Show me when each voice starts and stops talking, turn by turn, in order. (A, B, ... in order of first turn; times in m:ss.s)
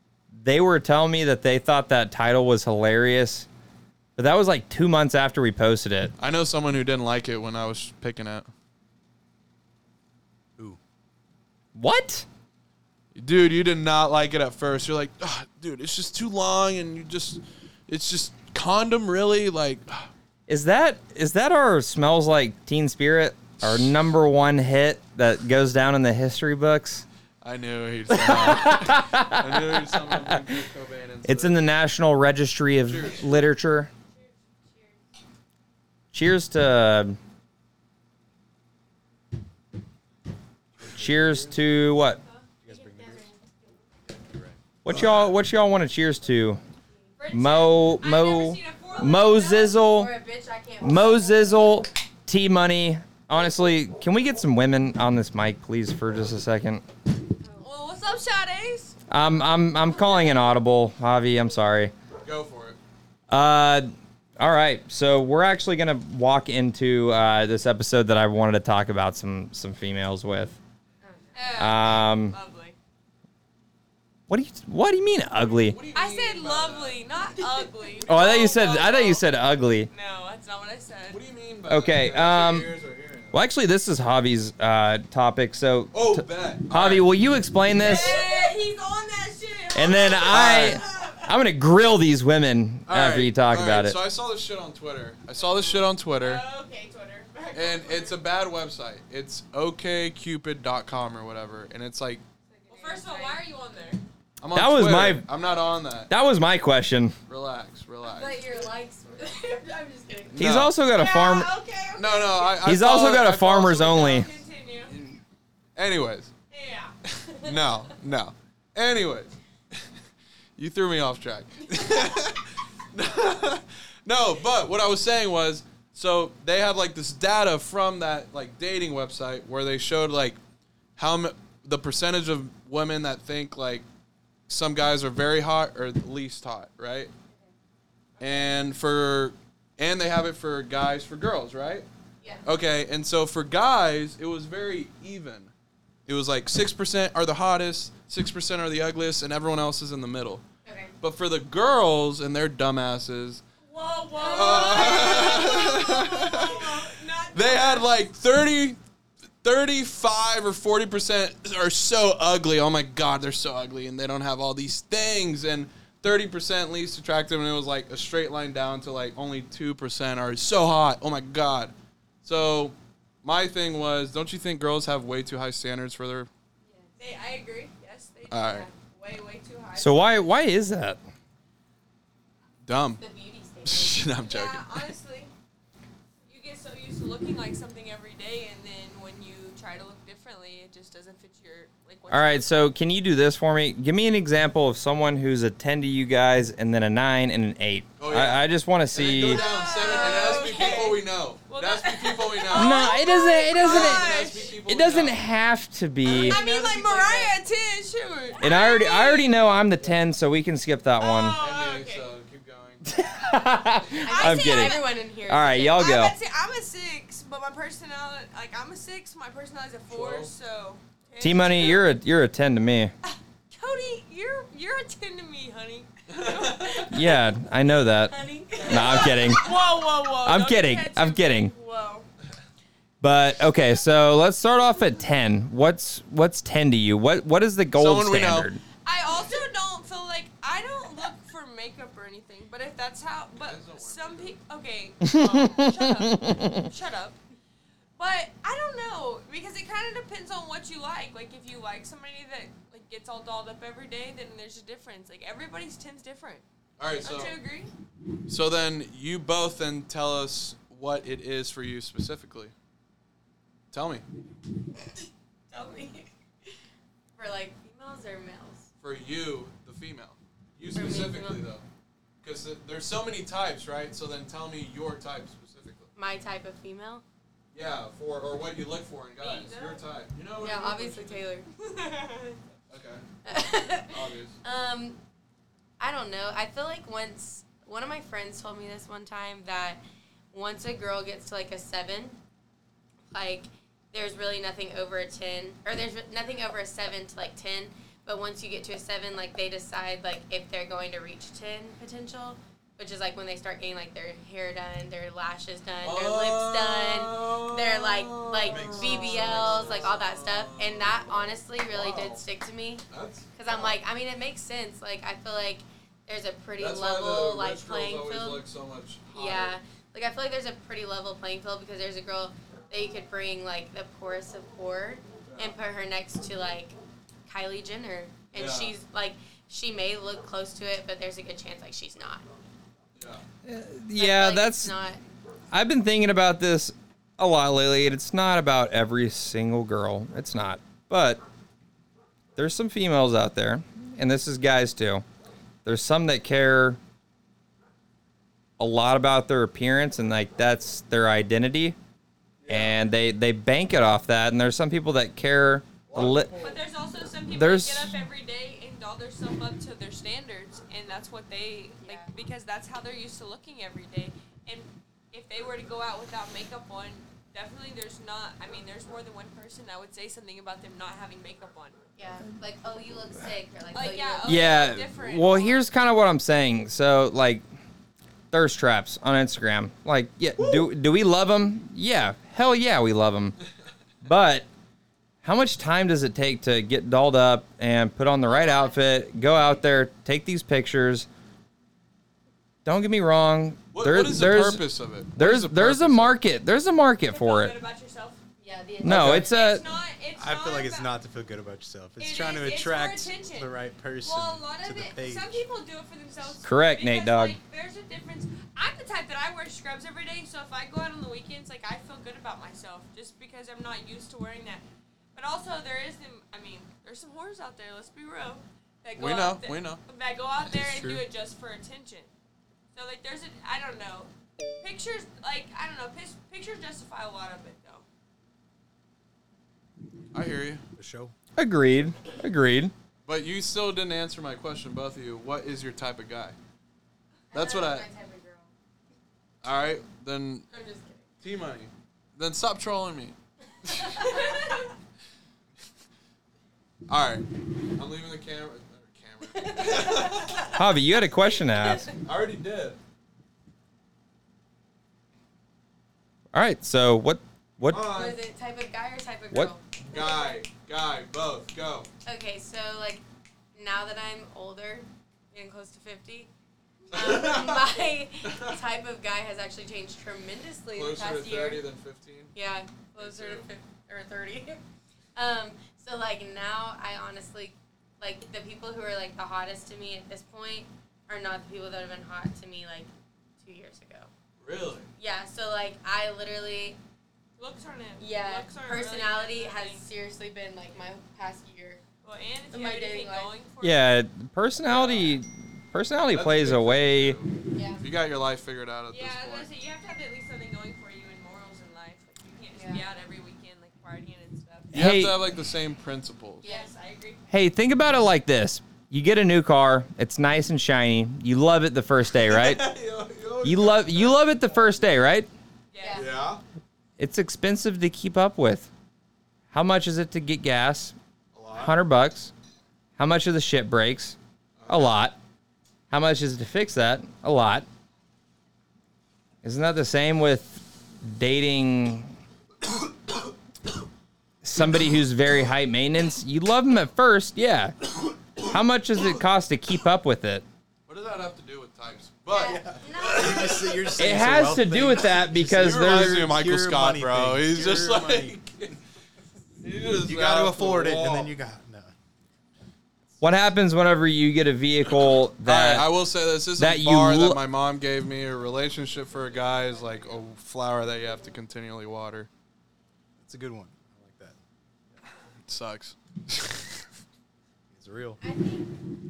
0:00.3-0:03.5 A
0:04.2-0:06.1 A
0:06.2-0:08.5 B
0:11.8-0:12.3 A
0:13.1-0:20.1 B
0:20.5-0:27.0 A
0:27.4-0:31.6 B
0:28.1-0:30.4 A
0:31.2-0:33.9 A
0:32.9-0:33.4 B
0:34.1-0:35.0 C
0:36.1-0:37.2 A
0:40.8-0:41.6 D
0:40.8-0:42.2 A
0:42.2-0:43.7 E
0:42.6-0:43.3 D
0:44.1-0:44.6 D
0:44.8-0:46.6 A
0:47.2-0:49.8 C
0:47.3-0:50.1 A
0:49.8-0:51.8 E
0:50.8-0:56.8 A
0:57.6-0:59.0 C
0:59.1-1:01.9 A
1:02.2-1:02.8 B
1:03.3-1:10.6 A
1:11.4-1:12.8 C
1:11.6-1:12.4 A
1:14.3-1:15.8 A
1:15.4-1:17.0 B
1:15.9-1:19.2 C
1:18.0-1:19.9 A
1:19.9-1:21.2 C
1:21.1-1:23.4 B
1:21.7-1:22.7 A
1:23.3-1:28.2 A
1:25.9-1:27.1 B
1:27.7-1:31.3 C
1:28.0-1:28.5 E
1:29.7-1:34.0 A
1:30.3-1:30.8 B
1:32.9-1:36.4 B
1:35.4-1:38.2 C
1:37.5-1:42.2 B
1:42.5-1:43.4 E
1:42.7-1:44.0 C
1:44.4-1:46.1 B
1:44.5-1:45.2 A
1:46.1-1:47.2 A
1:47.3-1:48.5 B
1:48.0-1:50.5 E
1:50.3-1:51.5 A
1:50.4-1:50.7 B
1:50.9-1:52.8 C
1:52.0-1:54.1 B
1:52.6-1:54.3 A
1:53.6-1:54.9 C
1:54.9-1:55.2 B
1:55.8-1:56.3 B
1:56.5-1:57.0 C
1:57.2-1:59.8 B
2:00.6-2:10.4 B
2:11.0-2:13.8 B
2:14.5-2:17.1 B
2:18.2-2:21.9 B
2:22.4-2:25.5 B
2:26.1-2:30.4 B
2:30.6-2:30.9 E
2:31.0-2:33.4 B
2:33.6-2:37.9 C
2:34.1-2:35.4 E
2:34.2-2:38.8 B
2:39.4-2:51.7 B
2:52.2-2:56.3 B
2:56.6-2:57.0 E
2:57.0-3:00.2 C
2:58.3-2:58.7 B
2:59.8-3:01.0 A
3:02.6-3:03.0 B
3:03.0-3:04.1 E
3:03.6-3:04.6 B
3:04.2-3:05.3 C
3:06.3-3:12.7 C
3:12.1-3:19.4 A
3:18.0-3:23.0 B
3:19.1-3:24.5 C
3:22.5-3:24.1 A
3:23.5-3:25.2 B
3:24.6-3:26.4 A
3:26.0-3:29.3 C
3:26.1-3:27.3 B
3:28.4-3:31.4 A
3:31.0-3:32.1 C
3:31.4-3:32.9 B
3:32.8-3:36.1 A
3:34.0-3:35.8 E
3:34.1-3:35.0 C
3:35.5-3:41.9 C
3:39.9-3:40.3 B
3:41.2-3:42.9 A
3:43.1-3:47.3 C
3:46.1-3:46.8 B
3:46.9-3:49.5 A
3:48.2-3:52.1 C
3:48.5-3:49.3 E
3:50.2-3:51.5 A
3:53.0-3:58.6 A
3:57.8-3:58.5 B
3:58.8-4:07.2 C
4:03.4-4:04.4 B
4:05.0-4:06.7 A
4:08.0-4:16.4 C
4:16.8-4:17.3 B
4:17.0-4:17.7 C
4:18.3-4:22.5 B
4:23.7-4:24.0 B
4:25.5-4:26.5 E
4:27.2-4:28.6 E
4:28.8-4:31.6 B
4:30.7-4:31.4 E
4:32.2-4:35.9 B
4:36.0-4:37.0 E
4:37.5-4:41.2 B
4:39.2-4:39.9 C
4:40.4-4:41.5 E
4:41.6-4:42.4 C
4:42.7-4:43.0 B
4:43.2-4:45.0 E
4:43.9-4:44.4 B
4:45.8-4:49.8 E
4:50.3-4:52.2 E
4:53.1-5:18.4 E
5:05.8-5:11.1 B
5:08.4-5:09.9 D
5:11.7-5:12.2 B
5:12.9-5:13.7 B
5:16.6-5:19.6 B
5:19.1-5:26.8 E
5:25.2-5:25.6 B
5:27.3-5:32.2 E
5:28.3-5:28.8 B
5:33.0-5:33.2 B
5:33.4-5:34.8 A
5:34.0-5:35.0 E
5:35.5-5:41.2 A
5:42.4-5:45.0 A
5:45.6-5:46.8 A
5:48.6-5:51.8 A
5:52.4-5:52.8 B
5:52.5-5:56.3 A
5:55.9-5:56.6 B
5:56.4-6:11.8 C
5:57.3-5:58.1 A
6:01.8-6:02.1 E
6:12.0-6:14.6 E
6:13.7-6:15.6 C
6:14.2-6:17.4 A
6:18.3-6:23.4 A
6:24.0-6:24.5 A
6:25.2-6:31.1 A
6:28.3-6:28.8 E
6:32.6-6:37.6 A
6:33.7-6:36.2 B
6:37.1-6:38.2 C
6:38.4-6:39.3 E
6:38.8-6:39.6 A
6:38.8-6:39.3 D
6:39.1-6:40.9 C
6:40.2-6:45.4 D
6:42.0-6:54.6 C
6:46.4-6:47.4 A
6:55.1-7:02.1 C
6:59.0-6:59.8 B
7:00.4-7:01.0 D
7:02.7-7:07.9 C
7:10.1-7:10.6 B
7:10.8-7:11.1 D
7:11.4-7:12.7 A
7:13.0-7:16.4 B
7:17.3-7:18.5 E
7:17.3-7:17.9 B
7:19.4-7:20.5 B
7:20.5-7:21.0 E
7:21.2-7:24.4 B
7:23.6-7:24.7 E
7:26.9-7:30.5 B
7:29.3-7:30.6 E
7:30.5-7:31.9 A
7:31.3-7:32.0 E
7:32.0-7:32.8 B
7:36.3-7:37.9 A
7:37.7-7:38.2 B
7:37.8-7:39.6 E
7:39.8-7:41.9 B
7:42.0-7:43.0 E
7:43.5-7:46.3 E
7:46.9-7:51.7 E
7:46.9-7:48.6 B
7:50.7-7:52.3 B
7:52.3-7:54.6 E
7:53.0-7:53.5 B
7:55.2-8:02.9 E
8:03.4-8:04.1 E
8:04.4-8:04.9 B
8:05.0-8:06.8 E
8:07.4-8:09.8 C
8:08.0-8:11.8 E
8:12.0-8:13.8 C
8:12.5-8:13.3 E
8:13.6-8:17.2 A
8:14.6-8:15.2 B
8:16.1-8:19.5 B
8:17.5-8:17.8 E
8:18.9-8:24.8 C
8:22.5-8:22.9 E
8:24.7-8:26.5 B
8:24.7-8:25.2 A
8:26.4-8:26.7 E
8:26.4-8:27.2 C
8:27.3-8:32.7 A
8:32.3-8:34.7 B
8:33.4-8:35.3 A
8:35.7-8:36.0 C
8:35.8-8:36.1 E
8:36.0-8:36.4 B
8:37.0-8:38.7 A
8:39.5-8:41.0 A
8:41.3-8:41.8 B
8:41.5-8:42.3 A
8:43.0-8:44.2 A
8:44.6-8:45.0 B
8:44.7-8:45.2 A
8:45.9-8:47.7 A
8:49.4-8:52.1 A
8:54.4-9:00.4 A
9:00.9-9:03.8 B
9:02.3-9:03.7 E
9:02.3-9:08.4 D
9:04.0-9:06.3 A
9:05.5-9:08.8 B
9:09.6-9:11.3 B
9:10.0-9:11.9 D
9:13.2-9:15.9 A
9:15.4-9:22.3 B
9:16.6-9:17.4 A
9:23.2-9:24.4 D
9:25.4-9:26.8 B
9:27.7-9:28.2 D
9:28.2-9:28.7 E